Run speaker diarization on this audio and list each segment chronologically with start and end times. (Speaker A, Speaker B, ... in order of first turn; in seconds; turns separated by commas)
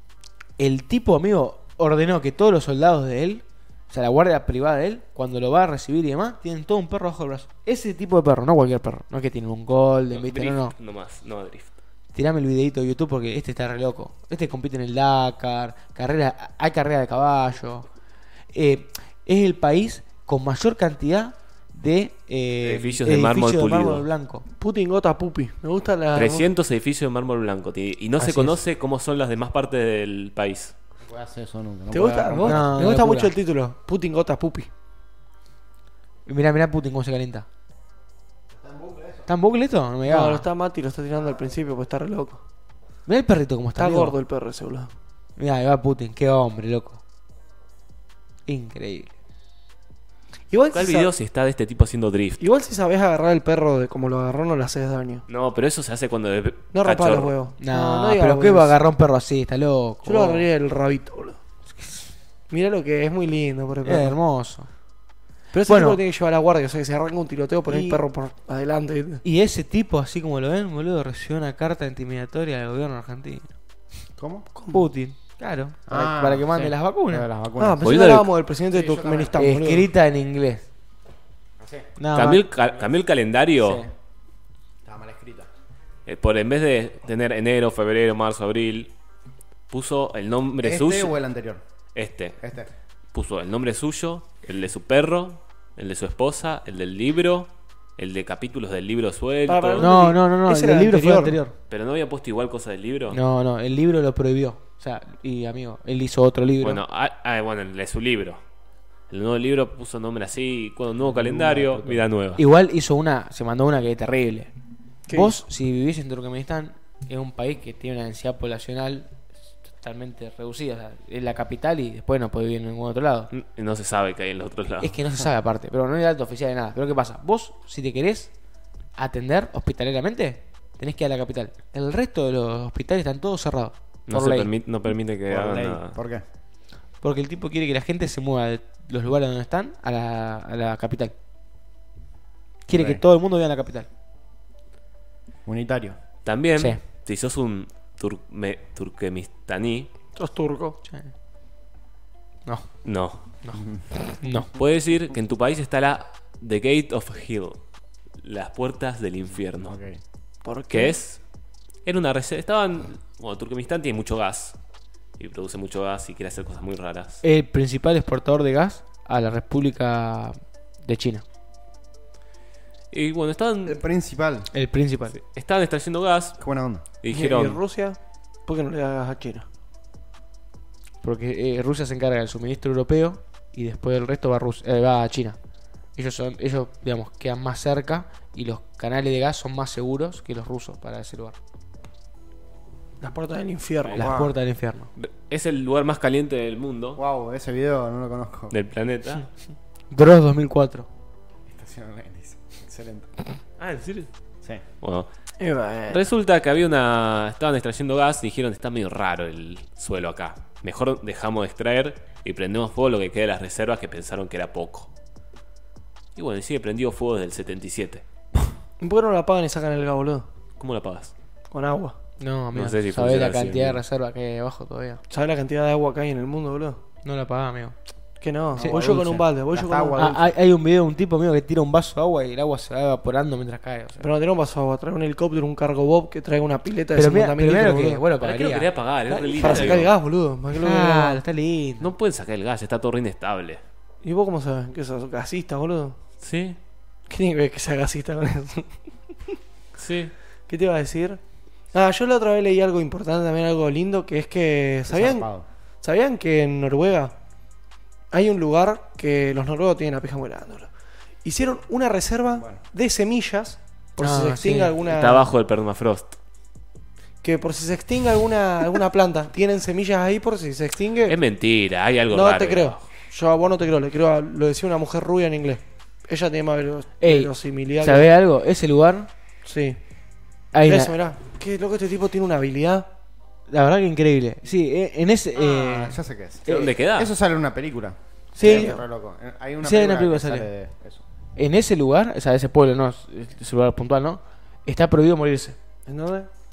Speaker A: 0.6-10.8, Speaker B: 10.1-11.8, Speaker A: 12.1-17.9, Speaker A: 18.5-24.5, Speaker B: 22.6-24.1, Speaker C: 24.6-26.5, Speaker B: 26.1-30.8, Speaker A: 28.2-28.6, Speaker D: 31.0-32.7, Speaker C: 31.9-34.7, Speaker A: 32.5-33.4, Speaker A: 36.3-37.5, Speaker D: 38.6-39.2, Speaker A: 39.3-40.5, Speaker C: 40.0-42.4, Speaker A: 43.1-44.2, Speaker C: 43.8-44.9, Speaker A: 45.4-47.0, Speaker A: 48.5-49.1, Speaker C: 50.5-51.1, Speaker B: 50.7-52.4, Speaker C: 52.4-55.2, Speaker B: 55.3-57.3, Speaker C: 56.7-58.8, Speaker A: 57.6-60.5, Speaker C: 60.0-61.4, Speaker A: 61.8-62.0, Speaker C: 62.5-64.2, Speaker A: 63.8-64.7, Speaker C: 65.5-69.2, Speaker A: 65.7-66.0, Speaker A: 67.7-68.0, Speaker A: 69.2-73.5, Speaker D: 74.2-74.5, Speaker C: 74.5-74.9, Speaker A: 74.7-77.4, Speaker D: 75.9-77.8, Speaker C: 77.6-79.9, Speaker B: 77.8-78.3, Speaker D: 78.7-79.4, Speaker A: 79.4-80.7, Speaker D: 81.6-81.9, Speaker A: 82.0-82.4, Speaker B: 82.1-83.9, Speaker A: 83.6-83.9, Speaker D: 84.8-85.5, Speaker B: 86.1-88.9, Speaker B: 89.7-91.2, Speaker D: 90.6-91.6, Speaker B: 91.9-92.4, Speaker D: 92.4-92.7, Speaker B: 93.1-99.9, Speaker C: 99.5-101.4, Speaker A: 99.8-101.5, Speaker B: 101.7-103.2, Speaker A: 103.1-106.8, Speaker B: 106.6-108.4, Speaker B: 109.1-112.4, Speaker A: 112.3-114.5, Speaker C: 115.1-115.3, Speaker A: 115.1-123.3, Speaker B: 123.3-125.0, Speaker A: 124.8-128.3, Speaker A: 129.0-134.5, Speaker B: 134.1-136.0, Speaker D: 135.3-136.2, Speaker A: 137.0-141.1, Speaker A: 142.7-143.9, Speaker D: 142.7-143.0, Speaker D: 145.5-146.0, Speaker B: 146.2-149.9, Speaker A: 146.6-146.8, Speaker C: 150.2-150.8, Speaker A: 152.5-154.5, Speaker B: 152.8-153.3, Speaker B: 154.5-157.6, Speaker B: 158.2-159.8, Speaker D: 159.7-160.0, Speaker C: 160.4-160.9, Speaker B: 160.7-161.2, Speaker B: 161.8-164.6, Speaker B: 165.2-167.2, Speaker A: 167.2-171.2, Speaker B: 172.9-173.8, Speaker D: 173.7-174.5, Speaker A: 174.5-175.2, Speaker B: 175.1-176.4, Speaker D: 176.4-176.8, Speaker B: 177.0-177.6, Speaker C: 177.1-179.4, Speaker A: 181.0-185.4, Speaker A: 185.9-191.4, Speaker C: 193.0-194.1, Speaker A: 193.9-194.9, Speaker D: 194.0-194.3, Speaker B: 195.0-197.0, Speaker D: 197.0-198.6, Speaker B: 198.5-199.3, Speaker A: 199.9-200.9, Speaker D: 201.5-203.1, Speaker B: 203.6-204.1, Speaker B: 204.8-205.1, Speaker C: 205.4-206.0, Speaker B: 205.9-214.9, Speaker B: 216.2-218.0, Speaker C: 218.8-220.3, Speaker B: 220.6-221.1, Speaker C: 221.5-222.0, Speaker A: 222.2-225.0, Speaker B: 222.5-223.8, Speaker C: 225.1-226.8, Speaker A: 227.0-227.8, Speaker C: 228.2-230.0, Speaker D: 228.6-230.4, Speaker A: 228.6-229.2, Speaker A: 230.0-234.1, Speaker C: 234.0-238.0, Speaker A: 236.9-238.7, Speaker B: 238.2-239.9, Speaker C: 239.1-241.2, Speaker A: 240.6-241.9, Speaker B: 241.8-243.6, Speaker C: 244.0-246.0, Speaker B: 246.2-246.6, Speaker C: 247.1-248.8, Speaker B: 249.8-250.1, Speaker C: 250.5-251.2, Speaker C: 251.7-257.1, Speaker D: 254.9-255.5, Speaker C: 258.1-265.3, Speaker D: 262.4-262.6, Speaker A: 264.0-264.7, Speaker B: 264.8-266.2, Speaker C: 267.2-271.2, Speaker B: 271.1-272.8, Speaker C: 272.1-278.1, Speaker A: 277.0-279.1, Speaker C: 279.4-279.8, Speaker A: 280.5-280.9, Speaker C: 280.6-282.9, Speaker A: 283.5-286.7, Speaker D: 285.4-291.0, Speaker B: 286.5-287.1, Speaker A: 288.4-288.8, Speaker C: 288.4-288.8, Speaker A: 289.6-290.5, Speaker A: 291.4-295.6, Speaker C: 295.9-296.3